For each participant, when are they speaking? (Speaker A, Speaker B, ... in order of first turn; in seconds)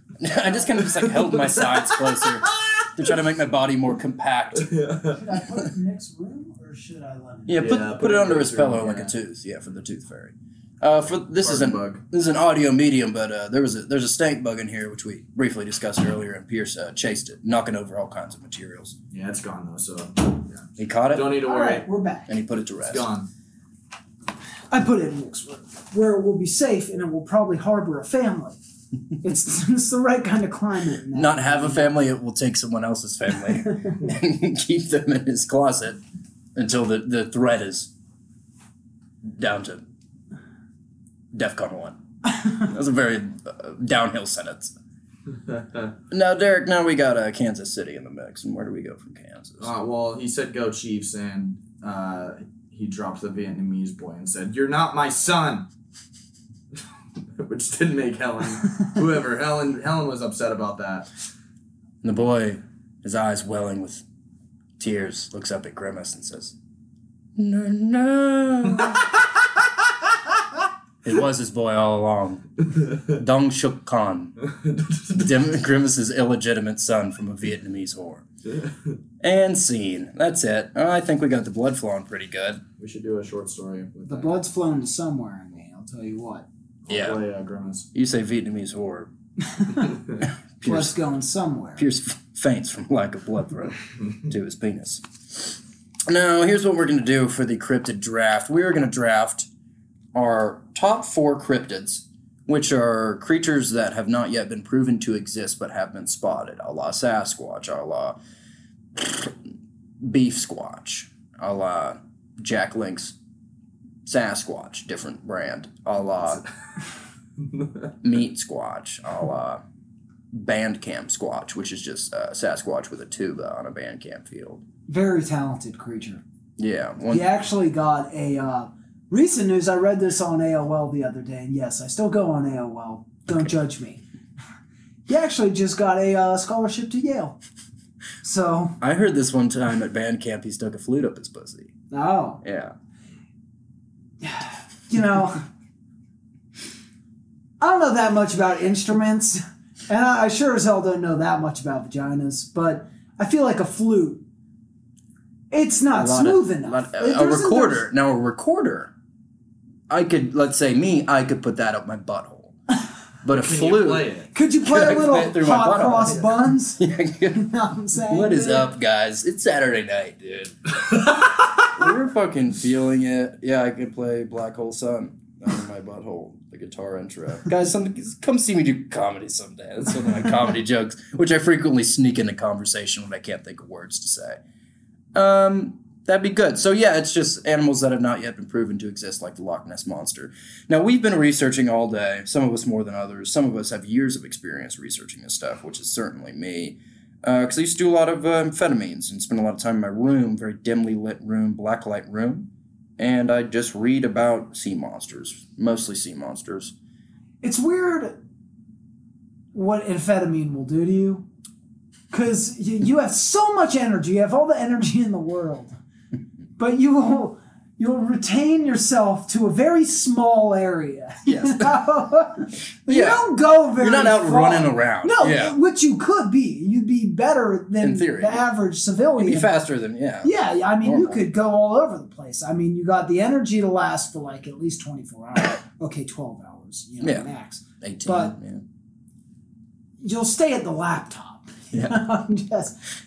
Speaker A: 0.2-4.7, 7.5-18.9, 20.8-21.4, 22.3-23.1, 31.1-36.0, 36.5-37.9, 39.2-39.8, 41.3-44.8, 46.1-49.7, 62.0-64.0, 64.8-66.5, 67.3-69.1, 71.0-74.3, 75.1-78.2, 79.2-82.6, 86.9-87.2, 87.9-89.1, 90.2-90.9, 91.8-99.5, 100.1-108.2, 108.9-109.4, 110.0-113.2, 114.0-116.4, 118.0-119.6, 120.3-124.7, 126.6-127.3, 138.8-141.7, 142.4-142.7, 155.9-158.9, 159.9-162.5, 163.2-164.1, 164.6-184.4, 185.1-206.7, 221.3-221.8, 222.9-223.2, 223.8-225.6, 227.8-228.4, 229.2-231.2, 237.0-237.3, 237.8-238.6, 241.7-242.0
Speaker B: 0.8-2.9, 4.5-5.2, 7.6-9.1, 11.4-12.0, 19.1-21.9, 22.8-23.3, 45.5-45.9, 49.6-55.7, 57.4-61.1, 74.5-75.2, 78.5-78.9, 82.8-84.3, 86.8-87.9, 117.4-117.9, 163.3-164.3
Speaker C: 5.1-7.9, 21.4-22.3, 24.7-28.6, 29.2-31.9, 33.7-34.0, 84.0-86.5, 89.5-89.9, 90.6-91.8, 124.9-126.2, 127.1-134.0, 135.1-137.4, 138.2-138.8, 141.9-142.4, 144.2-145.4, 147.6-154.2, 155.5-157.8, 164.3-168.7, 207.4-208.2, 209.5-211.2, 212.1-215.8, 216.6-229.5, 230.2-238.4, 240.0-242.8